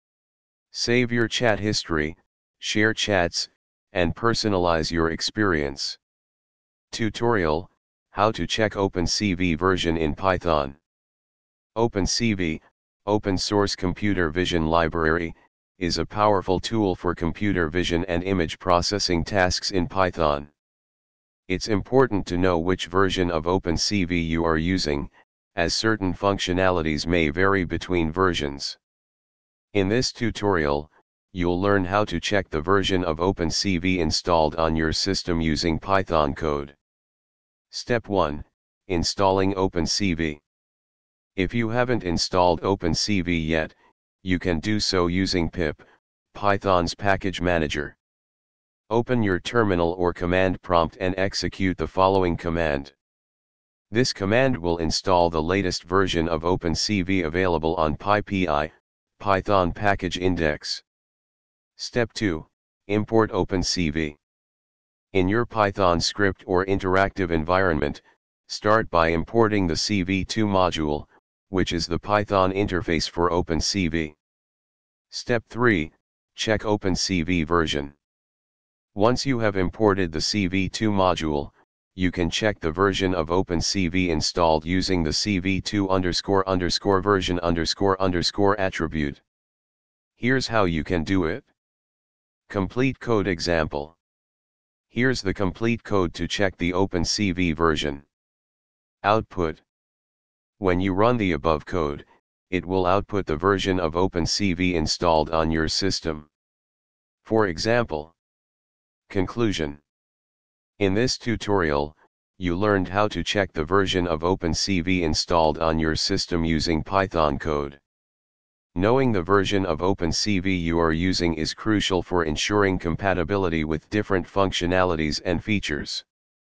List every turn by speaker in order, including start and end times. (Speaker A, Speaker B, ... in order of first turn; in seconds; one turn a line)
Speaker A: 0.7-6.0
Speaker A: 6.9-10.8
Speaker A: 11.8-20.5
Speaker A: 21.5-28.8
Speaker A: 29.7-36.8
Speaker A: 37.7-40.4
Speaker A: 41.4-48.0
Speaker A: 48.9-52.9
Speaker A: 53.9-60.8
Speaker A: 61.8-64.2
Speaker A: 65.1-74.2
Speaker A: 75.1-78.0
Speaker A: 78.9-89.2
Speaker A: 90.2-91.5
Speaker A: 92.5-94.0
Speaker A: 94.9-98.0
Speaker A: 99.0-99.6
Speaker A: 100.6-106.3
Speaker A: 107.2-108.2
Speaker A: 109.1-109.8
Speaker A: 110.8-117.8
Speaker A: 118.8-126.0